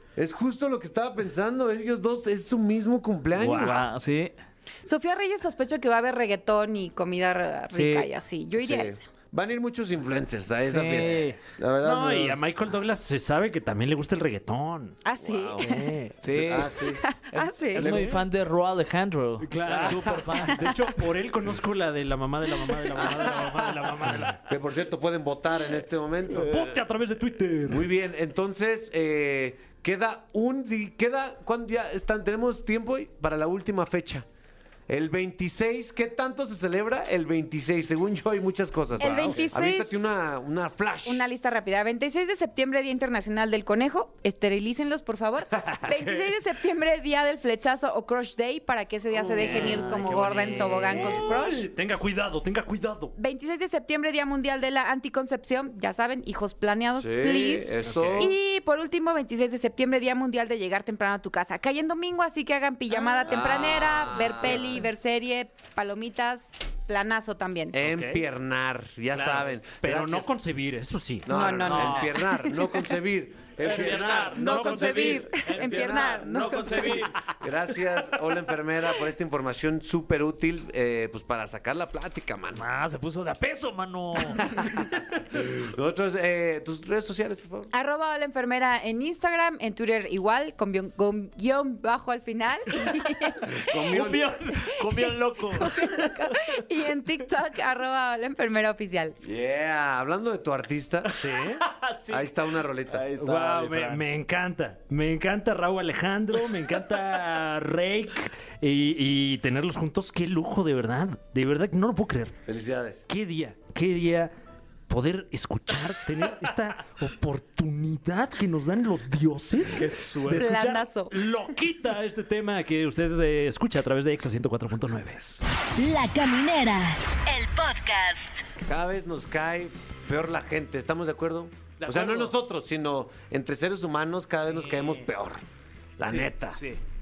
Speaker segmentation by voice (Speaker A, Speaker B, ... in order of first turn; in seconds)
Speaker A: 0.1-3.9, 8.6-12.4, 15.2-15.6, 16.3-17.0, 19.7-20.2, 23.0-26.6, 27.7-34.2, 34.9-41.2, 57.0-58.3, 63.2-64.8, 67.7-70.3, 71.2-82.6, 84.6-84.8, 85.3-87.7, 93.7-94.3, 99.2-101.1, 102.1-103.0, 112.5-113.0, 128.6-135.4, 136.0-136.6
Speaker B: 3.4-4.3, 7.7-8.1, 10.7-11.4, 16.2-16.7, 17.3-20.6, 49.4-51.0, 71.7-72.1, 73.6-77.2, 82.5-84.6, 93.8-96.2, 101.4-102.3, 102.9-104.0, 119.7-120.5, 131.8-132.3, 134.4-135.1, 136.0-136.8
Speaker C: 4.8-9.1, 15.0-15.8, 17.0-17.9, 39.0-40.1, 41.0-51.7, 53.1-67.8, 71.3-72.9, 74.4-77.0, 87.7-93.8, 94.8-99.2, 120.3-121.2
Speaker D: 11.8-15.0, 15.6-16.4, 17.8-18.2, 19.4-24.4, 26.3-27.9, 39.0-39.4, 49.1-53.1, 57.8-58.3, 67.8-68.2, 69.8-71.4, 73.8-77.0, 101.2-101.6, 103.2-112.3, 113.1-114.3, 114.9-125.4
Speaker E: 125.8-128.4